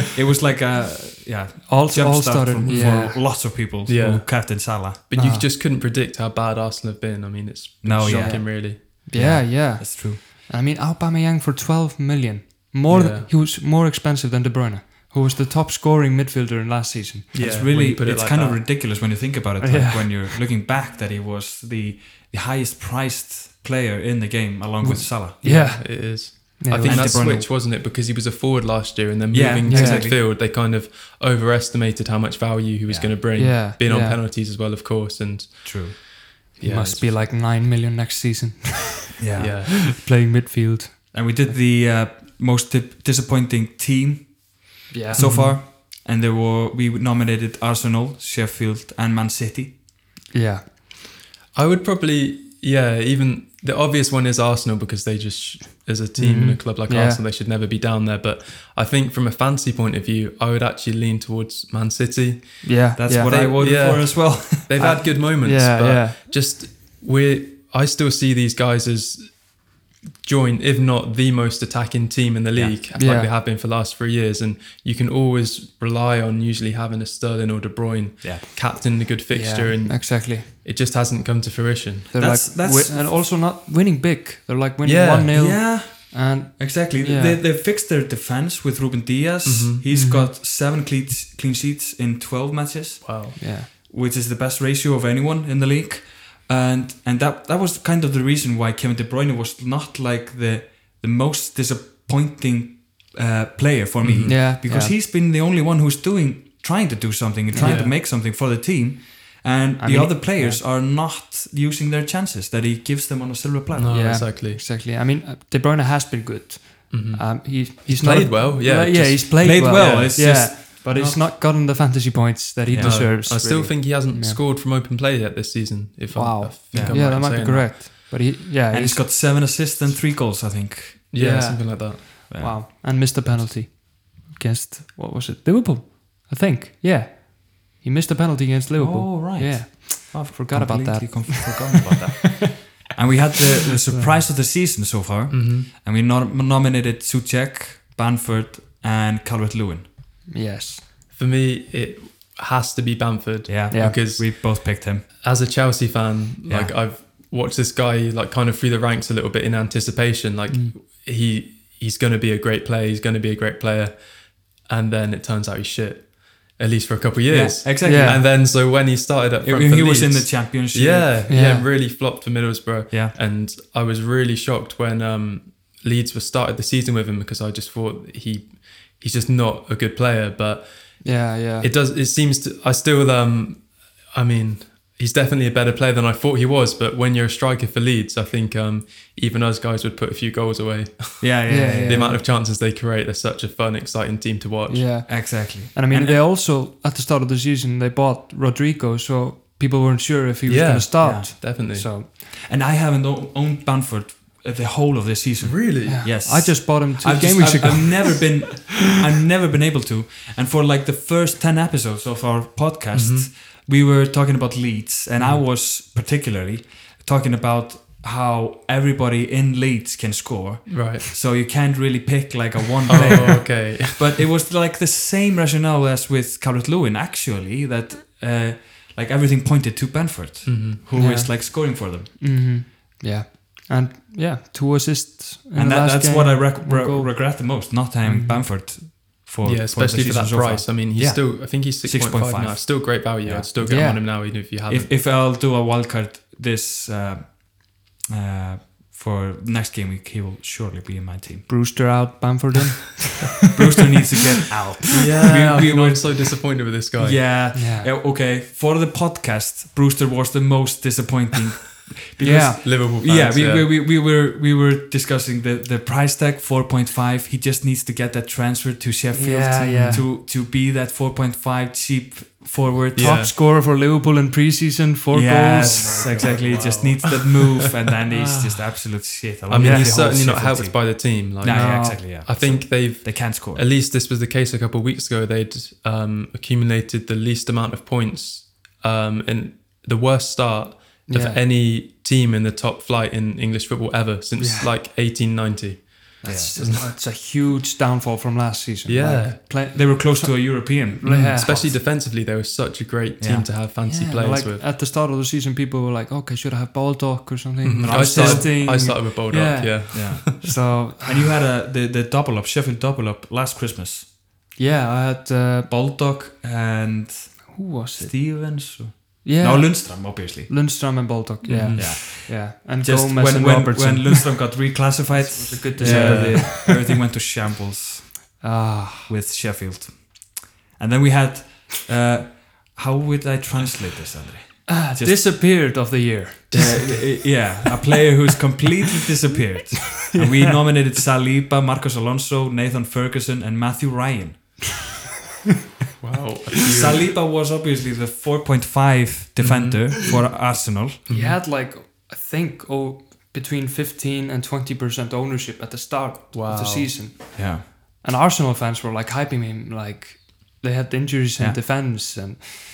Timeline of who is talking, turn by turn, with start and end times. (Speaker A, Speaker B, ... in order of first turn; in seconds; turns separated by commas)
Speaker A: 0.1-5.0, Speaker B: 1.7-3.2, Speaker C: 2.7-8.8, Speaker B: 5.1-5.5, Speaker A: 7.8-10.2, Speaker B: 8.0-17.3, Speaker C: 12.9-13.3, Speaker C: 17.3-18.7, Speaker A: 17.3-25.4, Speaker B: 19.6-20.4, Speaker B: 24.8-27.3, Speaker C: 25.3-37.1, Speaker A: 26.8-27.5, Speaker A: 29.3-30.2, Speaker B: 29.7-30.1, Speaker A: 32.9-33.1, Speaker B: 33.3-34.2, Speaker A: 35.6-36.0, Speaker B: 36.6-41.5, Speaker A: 39.2-39.5, Speaker C: 39.4-39.9, Speaker A: 41.1-49.8, Speaker B: 44.9-45.6, Speaker C: 45.1-45.6, Speaker B: 50.3-50.7, Speaker C: 51.5-82.1, Speaker B: 56.1-57.2, Speaker B: 62.6-63.3, Speaker A: 63.0-64.7, Speaker B: 64.8-66.2, Speaker B: 72.9-73.3, Speaker B: 79.3-80.5, Speaker B: 82.1-87.4, Speaker A: 82.1-83.2, Speaker C: 84.8-85.3, Speaker A: 85.3-114.1, Speaker C: 89.4-89.9, Speaker B: 89.9-90.3, Speaker C: 93.0-93.4, Speaker B: 93.4-93.7, Speaker C: 104.0-104.4, Speaker B: 104.2-104.9, Speaker B: 107.5-107.8, Speaker C: 107.6-107.9, Speaker B: 109.8-110.6, Speaker C: 113.7-114.6, Speaker B: 113.9-124.4, Speaker C: 116.9-120.5, Speaker A: 119.4-121.2, Speaker A: 122.7-123.1, Speaker C: 122.8-127.8, Speaker B: 126.1-129.0, Speaker A: 126.7-127.0, Speaker A: 128.7-131.1, Speaker C: 131.1-132.0, Speaker B: 131.2-141.8, Speaker A: 132.3-132.6, Speaker A: 138.8-149.9, Speaker B: 142.4-142.7, Speaker B: 143.9-144.2, Speaker C: 145.3-145.7, Speaker B: 150.3-150.8, Speaker C: 151.1-195.0, Speaker A: 153.5-155.1, Speaker B: 153.7-154.0, Speaker A: 156.5-156.8, Speaker A: 167.3-168.2, Speaker B: 167.8-168.2, Speaker A: 169.4-171.2, Speaker B: 171.3-171.7, Speaker B: 181.0-181.7, Speaker A: 191.2-192.2, Speaker B: 191.5-192.2, Speaker B: 194.7-202.1, Speaker A: 195.1-196.2, Speaker C: 200.4-201.9, Speaker A: 201.0-201.3, Speaker A: 202.0-232.1, Speaker C: 205.4-206.1, Speaker B: 205.8-208.4, Speaker C: 212.9-213.3, Speaker C: 220.7-221.0, Speaker C: 222.9-224.2, Speaker B: 222.9-223.4, Speaker C: 230.4-230.8, Speaker B: 230.9-238.4, Speaker A: 235.5-244.1, Speaker C: 239.4-244.9, Speaker B: 243.6-244.0, Speaker A: 244.7-251.5, Speaker B: 251.5-253.4, Speaker A: 253.5-256.1, Speaker C: 254.9-257.4, Speaker A: 257.0-273.2, Speaker B: 257.5-257.9, Speaker B: 262.2-262.6, Speaker C: 262.4-263.7, Speaker B: 269.1-270.1, Speaker C: 269.6-270.1, Speaker C: 272.9-273.3, Speaker B: 272.9-276.3, Speaker A: 275.1-283.6, Speaker C: 275.5-277.5, Speaker C: 278.2-278.6, Speaker C: 279.5-296.9, Speaker B: 279.6-279.9, Speaker B: 281.4-282.0, Speaker B: 291.1-291.4, Speaker B: 294.4-294.7, Speaker B: 296.2-301.7, Speaker A: 296.2-296.5, Speaker C: 298.9-299.4, Speaker A: 299.7-301.8, Speaker C: 301.0-304.6, Speaker A: 303.2-303.5, Speaker B: 303.8-311.2, Speaker C: 307.6-310.5, Speaker A: 307.8-308.9, Speaker A: 309.9-314.1, Speaker B: 314.6-315.7, Speaker A: 315.7-320.5, Speaker B: 317.5-318.7, Speaker B: 319.2-326.8, Speaker C: 321.4-321.9, Speaker A: 321.7-328.4, Speaker C: 325.8-326.5, Speaker B: 328.4-329.1, Speaker A: 329.1-335.3, Speaker B: 334.7-337.7, Speaker A: 336.5-344.7, Speaker C: 336.5-336.9, Speaker B: 340.1-340.6, Speaker C: 346.0-347.2, Speaker A: 346.6-351.1, Speaker C: 349.4-349.9, Speaker C: 351.1-351.4, Speaker B: 351.1-362.5, Speaker C: 356.3-357.0, Speaker A: 357.4-357.6